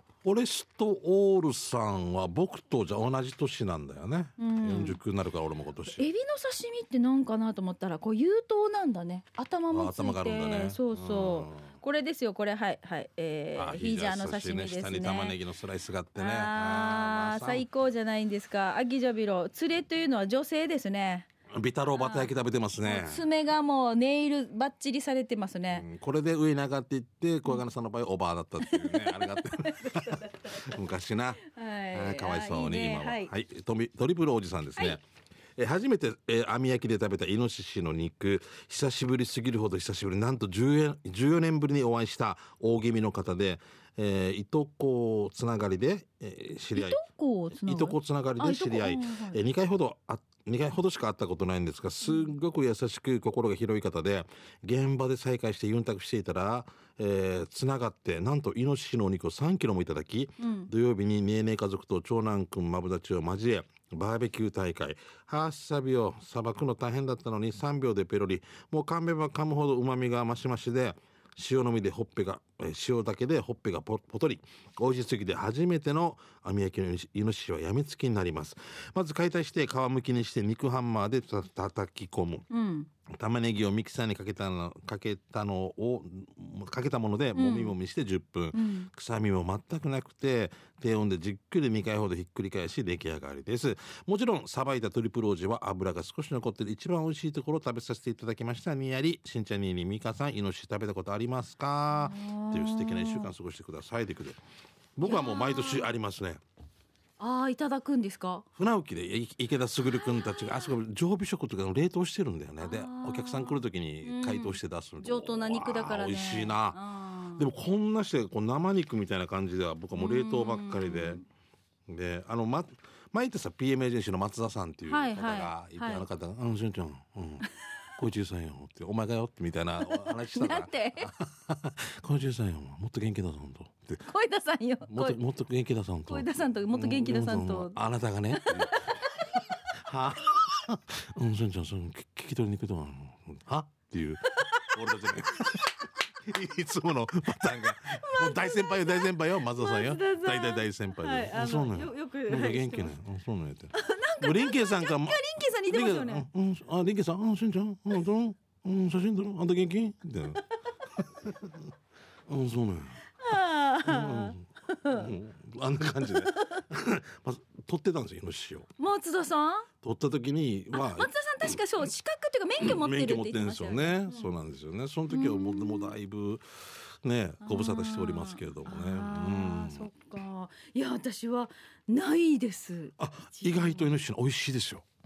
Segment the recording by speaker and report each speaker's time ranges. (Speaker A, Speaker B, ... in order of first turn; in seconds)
Speaker A: 0.2-6.0, 9.7-11.7, 13.6-17.6, 21.5-23.2, 25.7-35.0, 35.6-47.0, 47.5-82.5, 83.1-104.4, 105.0-106.4, 108.5-116.8, 117.3-121.2, 121.9-127.5, 128.0-134.0, 134.9-145.7, 146.2-160.4, 161.0-161.6, 162.3-163.0, 163.8-168.7, 169.8-171.6, 172.6-179.9, 183.0-184.8
Speaker B: 4.4-5.0, 5.9-15.4, 16.1-21.3, 22.0-22.3, 22.8-25.8, 28.6-30.7, 31.4-33.3, 46.7-49.4, 52.0-52.3, 60.4-60.7, 82.5-82.9, 87.3-87.7, 88.5-88.9, 102.0-103.3, 105.0-105.9, 107.2-108.4, 110.2-110.7, 112.6-117.4, 119.9-121.2, 124.9-126.0, 129.8-131.1, 134.0-135.2, 136.1-137.8, 138.3-139.5, 144.3-145.5, 147.6-152.9, 153.7-156.3, 163.2-165.1, 166.1-166.6, 168.8-169.7, 170.7-174.3, 175.1-175.9, 177.4-184.0